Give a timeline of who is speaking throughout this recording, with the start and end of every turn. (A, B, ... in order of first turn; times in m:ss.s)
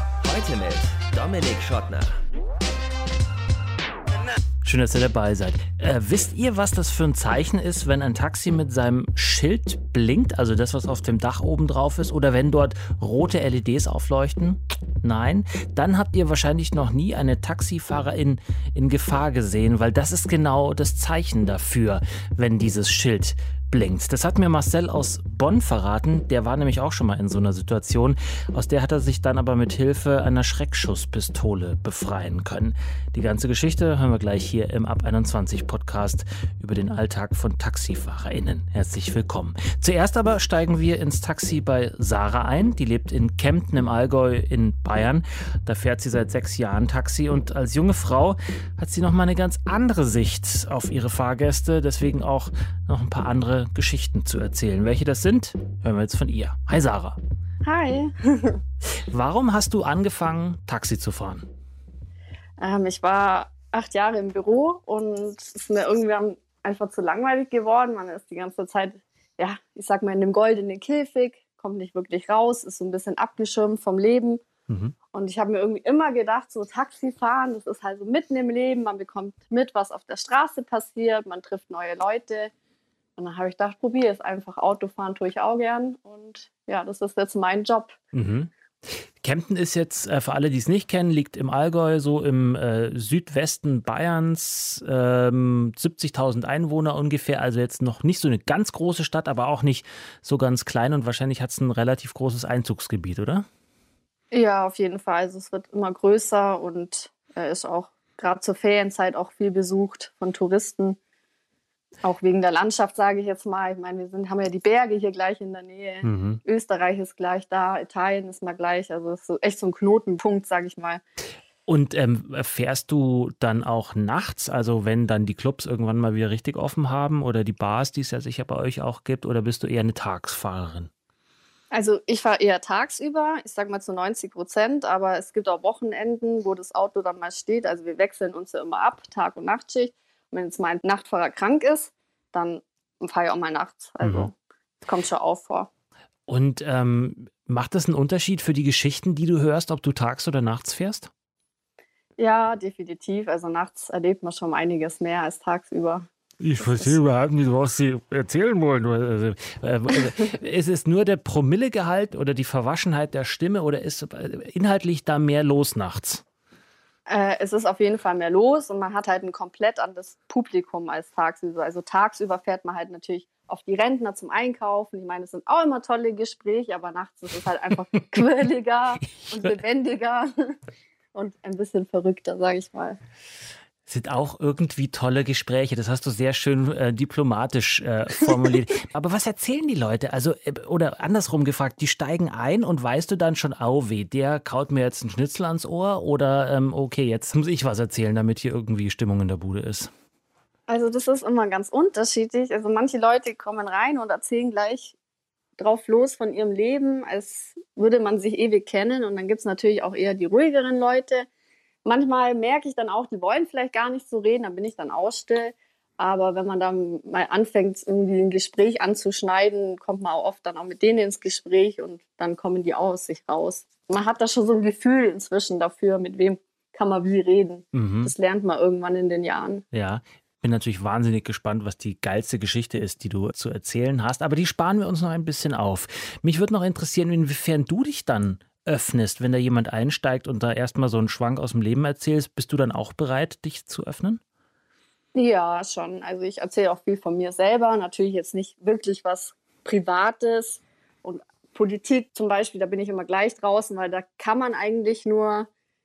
0:00.2-0:02.2 A
0:04.6-0:57.2 B
0:57.6-0:58.6 C
0:59.1-1:01.4 B
1:02.6-1:14.4 C
1:14.7-1:14.9 B
1:15.1-1:22.5 C
1:23.2-1:28.0 C
1:28.1-1:43.4 B
1:44.3-1:51.0 C
1:52.0-2:01.0 C
1:56.0-1:56.4 B
2:01.7-2:10.9 B
2:11.7-2:25.7 C
2:24.0-2:24.3 B
2:26.3-2:31.1 B
2:32.2-2:37.0 C
2:36.4-2:46.2 B
2:47.1-3:00.6 C
3:01.1-3:03.0 C
3:03.9-3:19.9 B
3:20.7-3:25.0 C
3:25.6-3:31.3 C
3:31.8-3:49.6 C
3:47.7-3:48.1 B
3:49.7-4:04.2 B
4:05.1-4:15.5 C